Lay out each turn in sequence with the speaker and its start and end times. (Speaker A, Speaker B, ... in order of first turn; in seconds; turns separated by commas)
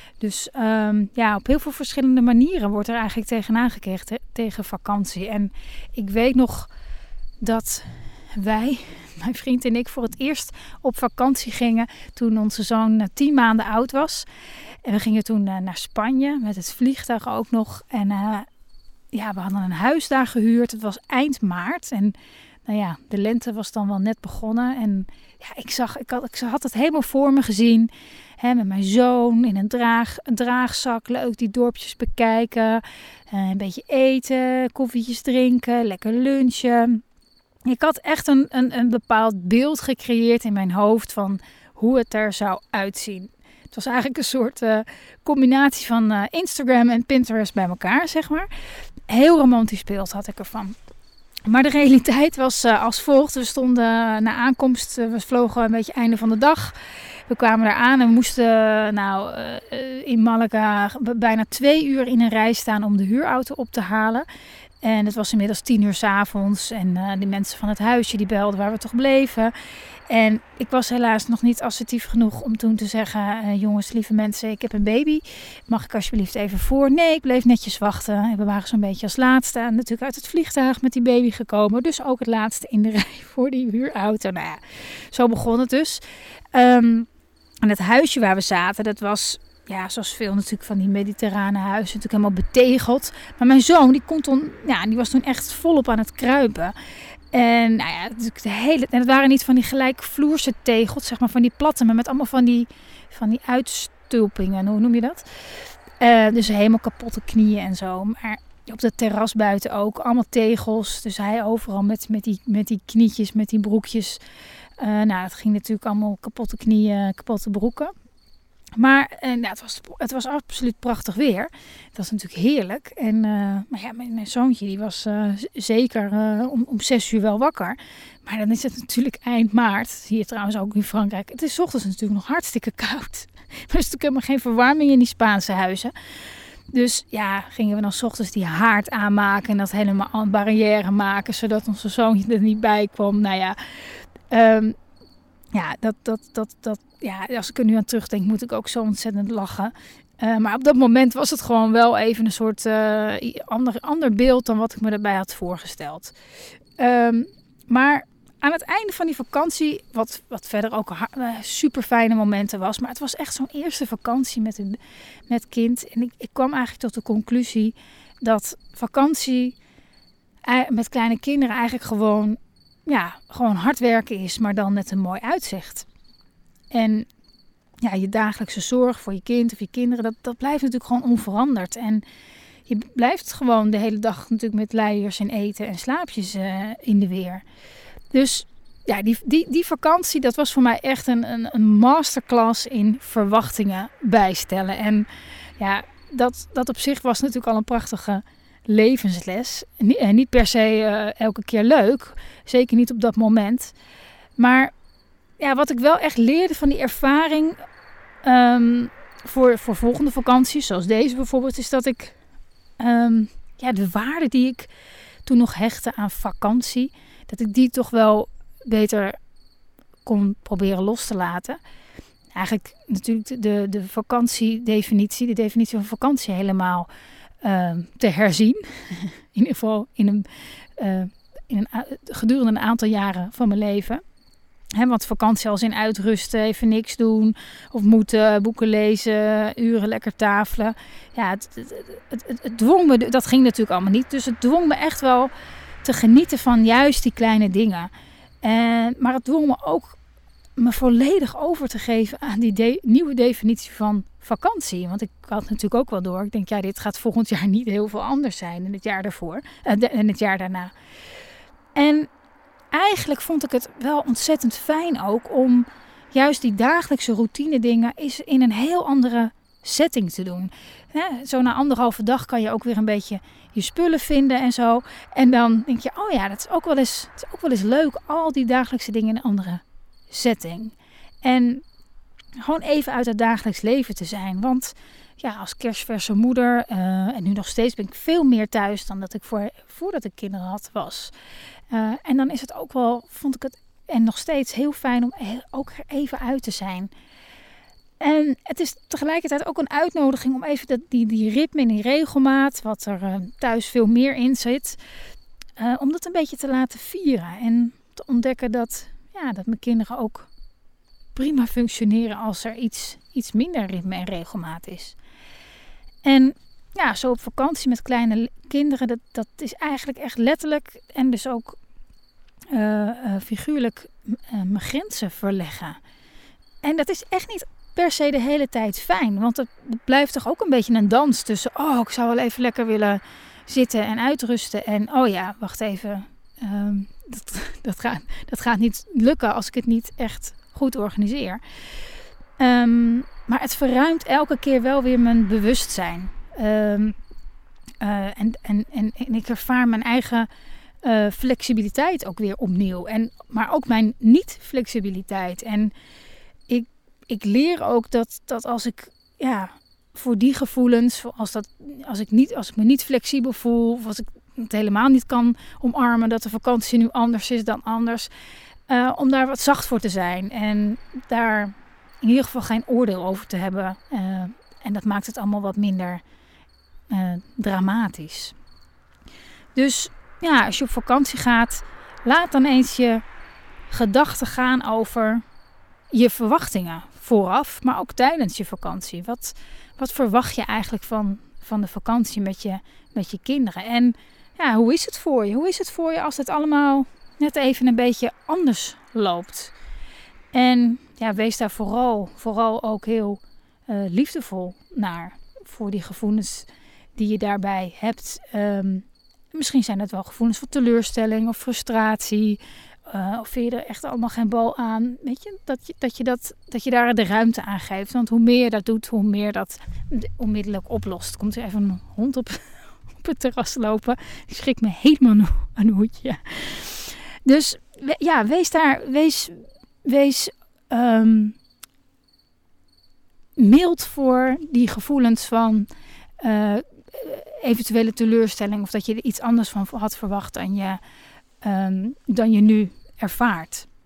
Speaker A: 0.2-6.7, Speaker A: 7.4-14.3, Speaker A: 14.8-18.5, Speaker A: 19.1-37.0, Speaker A: 37.6-48.5, Speaker A: 49.1-50.8, Speaker A: 51.5-64.3, Speaker A: 64.8-69.5, Speaker A: 70.1-86.0, Speaker A: 86.5-87.1, Speaker A: 87.6-96.8, Speaker A: 97.3-114.2, Speaker A: 114.8-117.9, Speaker A: 118.8-135.9, Speaker A: 136.7-144.8, Speaker A: 145.5-156.2, Speaker A: 156.8-169.6, Speaker A: 170.4-175.9, Speaker A: 176.7-177.1, Speaker A: 177.8-182.1, Speaker A: 182.7-187.4, Speaker A: 188.1-203.7, Speaker A: 204.4-204.7, Speaker A: 205.4-207.6, Speaker A: 208.2-212.2, Speaker A: 212.8-214.7, Speaker A: 215.2-219.2, Speaker A: 220.1-221.6, Speaker A: 222.3-226.9, Speaker A: 227.4-234.0, Speaker A: 234.8-247.9, Speaker A: 248.4-250.0, Speaker A: 250.6-260.7, Speaker A: 261.8-262.1, Speaker A: 262.7-281.6, Speaker A: 282.4-291.1, Speaker A: 291.7-296.9, Speaker A: 298.0-304.8, Speaker A: 305.6-310.3, Speaker A: 311.1-315.0, Speaker A: 316.0-321.6, Speaker A: 322.5-325.8, Speaker A: 326.6-341.4, Speaker A: 342.4-347.0, Speaker A: 347.8-350.3, Speaker A: 350.8-355.7, Speaker A: 356.5-368.1, Speaker A: 368.7-376.0, Speaker A: 376.9-378.4, Speaker A: 379.6-383.0, Speaker A: 383.7-385.2, Speaker A: 385.9-399.5, Speaker A: 400.3-431.4, Speaker A: 433.4-435.7, Speaker A: 436.2-440.8, Speaker A: 441.4-443.7